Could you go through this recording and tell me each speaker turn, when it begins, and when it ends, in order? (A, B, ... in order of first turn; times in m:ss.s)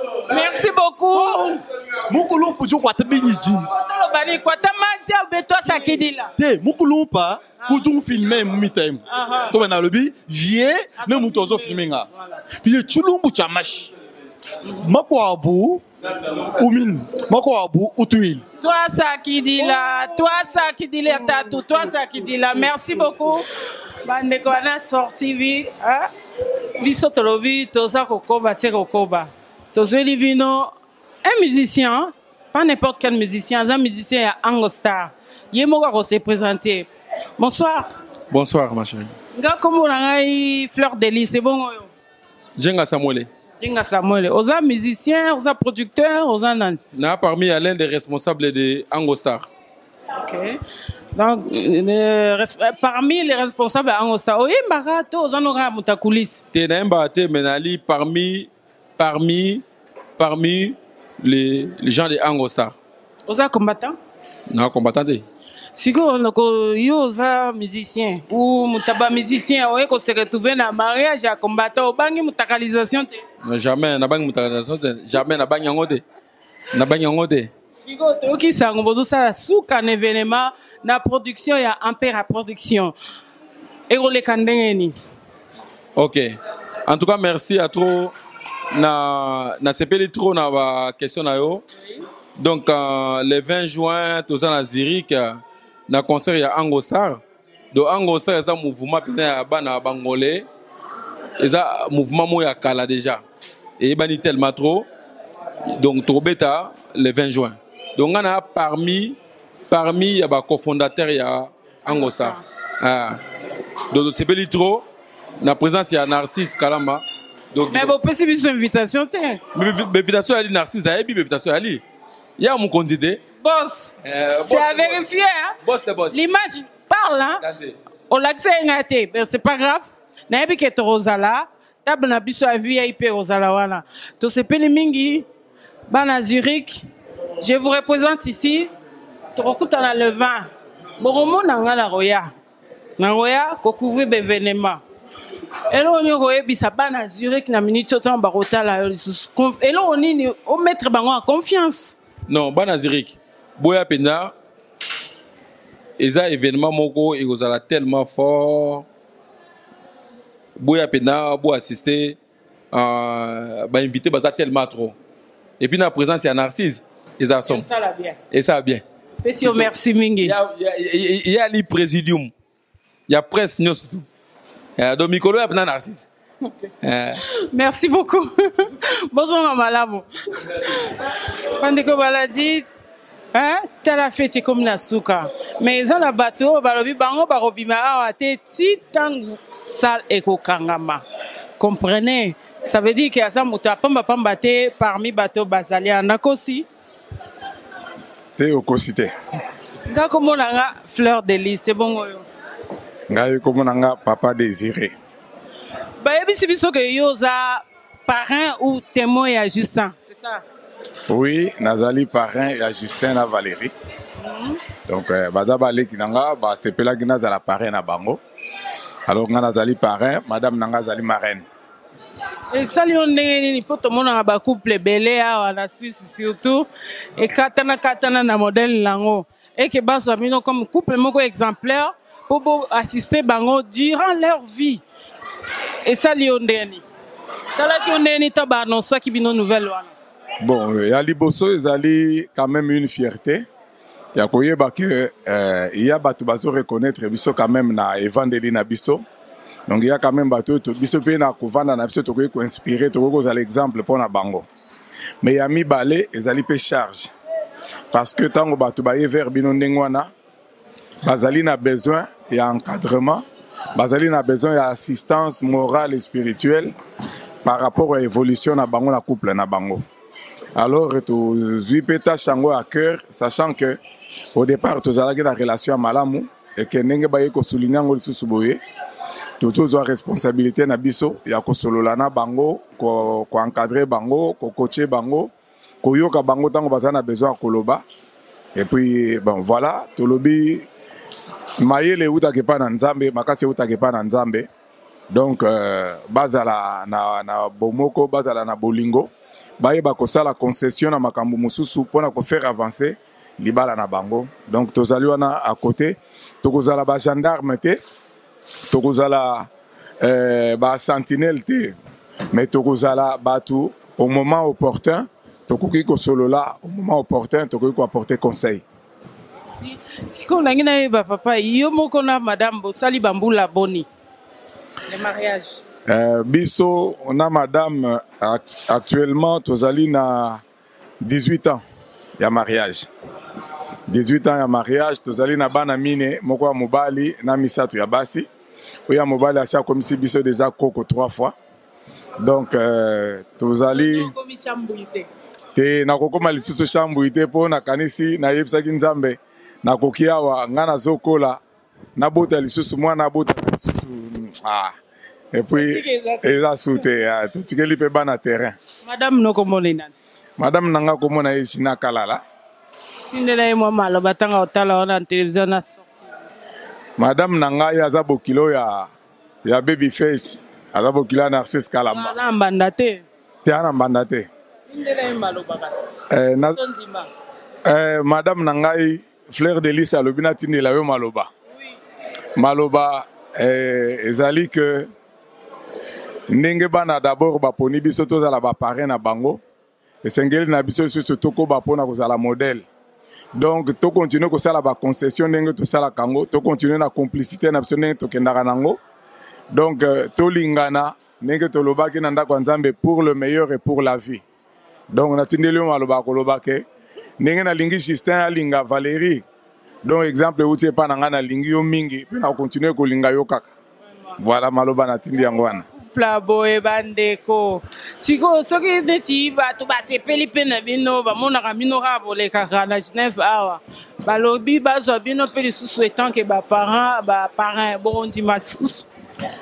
0:00.3-0:01.4 A
0:01.1-0:03.7 B
0:03.7-0:06.3 A
0:05.7-0:12.1 B
0:09.1-0:09.5 A
0:11.0-0:12.3 A
0:12.6-0:13.9 B
0:14.7-0:15.8 B
0:16.5-0:18.4 B
0:18.6-0:23.4 A
0:24.0-0:26.1 A
0:26.8-0:30.7 A
0:31.2-0:37.9 A
0:38.3-0:39.1 C
0:39.3-0:41.9 A
0:42.6-0:43.3 C
0:43.6-0:46.8 A
0:47.0-0:49.4 C
0:50.2-0:50.6 A
0:51.1-0:56.4 A
0:56.6-0:58.5 C
0:59.0-0:59.6 C
1:00.2-1:02.7 C
1:03.3-1:04.0 A
1:04.5-1:05.2 C
1:05.8-1:13.2 A
1:13.4-1:16.0 C
1:16.8-1:17.5 C
1:17.8-1:22.9 A
1:23.9-1:24.9 A
1:26.0-1:26.3 C
1:26.9-1:28.1 C
1:28.8-1:31.6 C
1:32.4-1:35.3 C
1:35.9-1:37.2 C
1:37.8-1:40.4 C
1:41.4-1:43.2 C
1:43.8-1:44.8 C
1:45.8-1:47.5 C
1:49.7-1:52.3 C
1:51.9-1:52.4 A
1:52.9-1:53.1 C
1:54.0-1:54.8 C
1:55.9-1:56.4 C
1:57.7-1:59.4 A
1:59.6-2:01.5 C
2:02.5-2:03.2 C
2:03.4-2:05.6 A
2:04.4-2:05.0 C
2:05.8-2:06.1 C
2:06.1-2:07.4 A
2:08.1-2:15.2 A
2:15.9-2:16.8 A
2:17.4-2:18.7 A
2:19.3-2:20.5 A
2:21.0-2:22.3 A
2:23.0-2:24.8 A
2:25.7-2:32.0 A
2:37.7-2:38.1 C
2:47.4-2:48.2 A
2:49.2-2:50.3 A
2:57.5-3:00.0 A
3:01.6-3:02.7 A
3:03.3-3:11.0 A
3:11.6-3:16.6 A
3:18.4-3:19.1 D
3:19.9-3:22.2 A
3:23.1-3:24.9 D
3:26.0-3:30.4 A
3:31.1-3:33.7 D
3:34.2-3:34.6 A
3:34.9-3:38.2 D
3:39.1-3:41.4 D
3:42.5-3:54.8 A
3:55.8-3:56.8 A
3:57.5-3:59.9 A
4:00.4-4:03.4 D
4:04.1-4:09.0 D
4:09.7-4:14.4 D
4:15.2-4:17.1 D
4:17.9-4:20.1 D
4:21.0-4:23.2 D
4:23.7-4:26.7 D
4:27.4-4:29.8 D
4:30.6-4:33.8 D
4:34.3-4:38.6 D
4:39.4-4:45.3 D
4:45.8-4:47.8 D
4:48.6-4:50.7 D
4:51.6-4:54.5 D
4:55.1-5:07.8 D
5:08.7-5:09.5 D
5:10.0-5:11.7 D
5:12.3-5:18.6 D
5:19.6-5:23.9 A
5:24.9-5:25.6 A
5:25.9-5:30.4 D
5:31.0-5:31.6 D
5:32.2-5:32.9 D
5:33.9-5:38.3 D
5:38.9-5:41.3 D
5:42.2-5:44.1 D
5:43.7-5:45.1 A
5:45.6-5:51.4 D
5:52.0-5:54.7 D
5:55.3-5:58.6 D
5:55.6-5:56.3 A
5:58.8-5:59.9 A
6:00.4-6:02.2 D
6:03.1-6:06.1 A
6:07.0-6:08.9 D
6:09.4-6:12.1 D
6:11.9-6:13.0 A
6:13.4-6:14.3 D
6:14.7-6:15.9 A
6:16.1-6:16.6 D
6:16.6-6:17.1 A
6:17.6-6:21.3 D
6:21.5-6:21.8 A
6:22.4-6:24.9 D
6:26.3-6:29.4 D
6:30.0-6:32.6 D
6:33.3-6:38.8 D
6:39.5-6:44.2 D
6:44.9-6:46.6 D
6:47.2-6:49.2 D
6:49.8-6:53.5 D
6:54.2-6:55.6 D
6:55.8-7:08.9 A